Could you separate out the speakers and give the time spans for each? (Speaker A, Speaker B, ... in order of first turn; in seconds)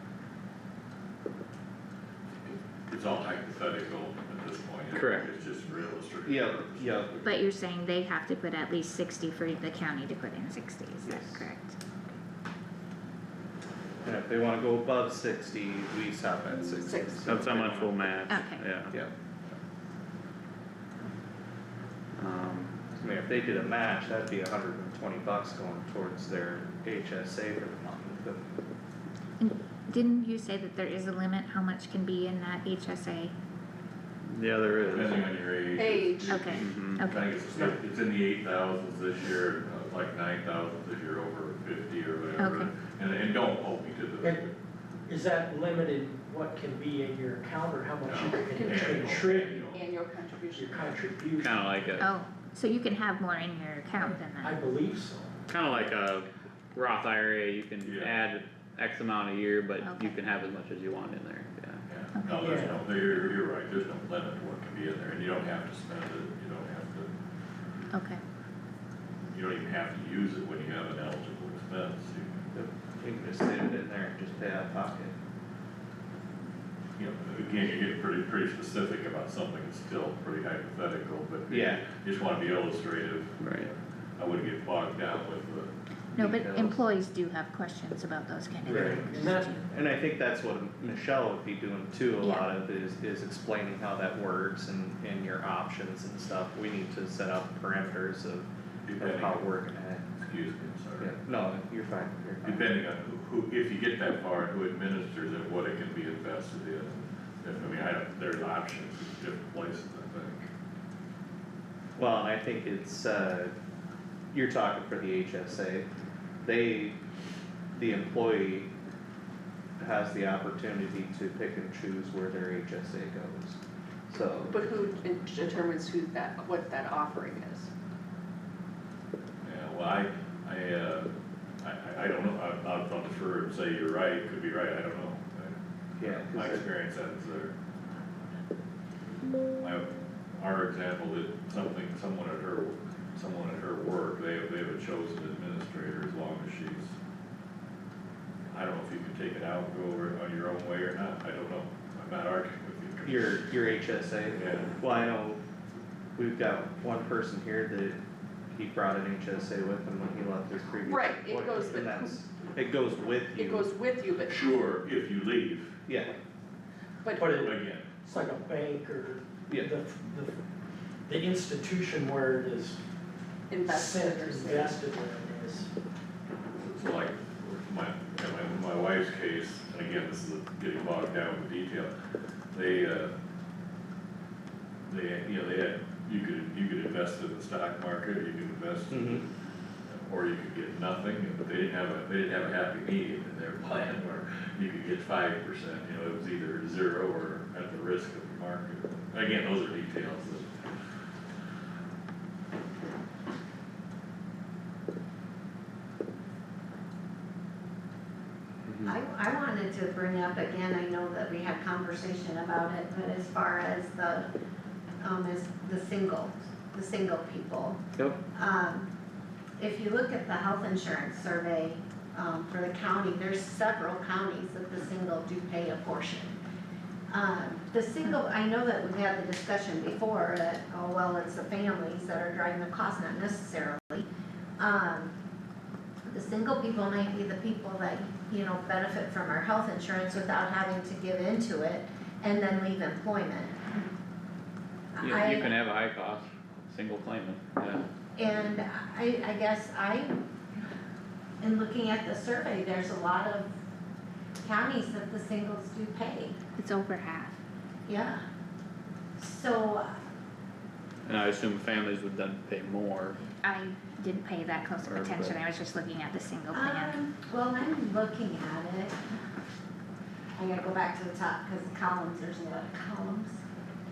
Speaker A: 2.4-7.4, 34.9-44.5, 48.0-49.9, 57.9-58.1, 61.9-67.1, 69.3-72.5, 77.0-85.7, 98.9-99.4, 100.2-101.1, 102.4-110.5, 129.4-131.1, 131.6-137.5, 139.6-146.9, 148.5-153.5, 154.3-154.7, 164.3-165.8, 167.3-167.9, 176.6-181.9, 182.5-183.1, 184.9-189.3, 189.9-200.6
Speaker B: 4.9-5.3, 17.3-18.9, 22.2-22.7, 34.3-35.3, 36.5-37.0, 51.4-52.1, 55.5-61.8, 83.4-83.7, 208.7-208.9, 245.0-247.8, 261.1-263.2, 264.8-265.4
Speaker C: 6.2-7.2, 11.0-11.5, 14.0-18.0, 23.0-28.5, 72.5-75.1, 81.5-81.8, 86.2-86.8, 88.7-100.0, 101.0-102.6, 112.0-113.5, 114.3-115.9, 116.4-117.0, 117.7-118.7, 119.8-124.6, 136.0-136.7, 153.1-155.4, 156.2-158.0, 158.5-163.7, 165.9-166.2, 188.9-189.2
Speaker D: 7.2-11.7, 18.3-18.7, 29.4-33.3, 36.3-37.4, 42.4-42.7, 52.0-54.6, 59.8-60.3, 62.1-62.5, 67.9-68.2, 86.2-89.7, 92.2-92.5, 256.6-257.4, 263.4-267.0
Speaker E: 16.9-17.2, 35.8-36.3, 48.5-51.1, 124.5-127.7, 160.9-162.2, 163.4-164.4, 167.0-167.3, 173.5-174.8
Speaker F: 45.1-49.6, 50.5-51.8, 53.9-55.4, 62.4-62.8, 88.6-89.5, 167.2-170.3, 171.1-172.8, 173.6-175.7
Speaker G: 208.8-214.3, 215.0-217.8, 218.3-218.9, 219.6-226.4, 227.1-234.1, 234.6-235.1, 236.1-243.8, 245.0-245.6, 248.2-250.3, 251.4-253.5, 254.4-256.4, 257.9-258.2, 259.2-259.9, 266.5-269.0, 270.4-273.4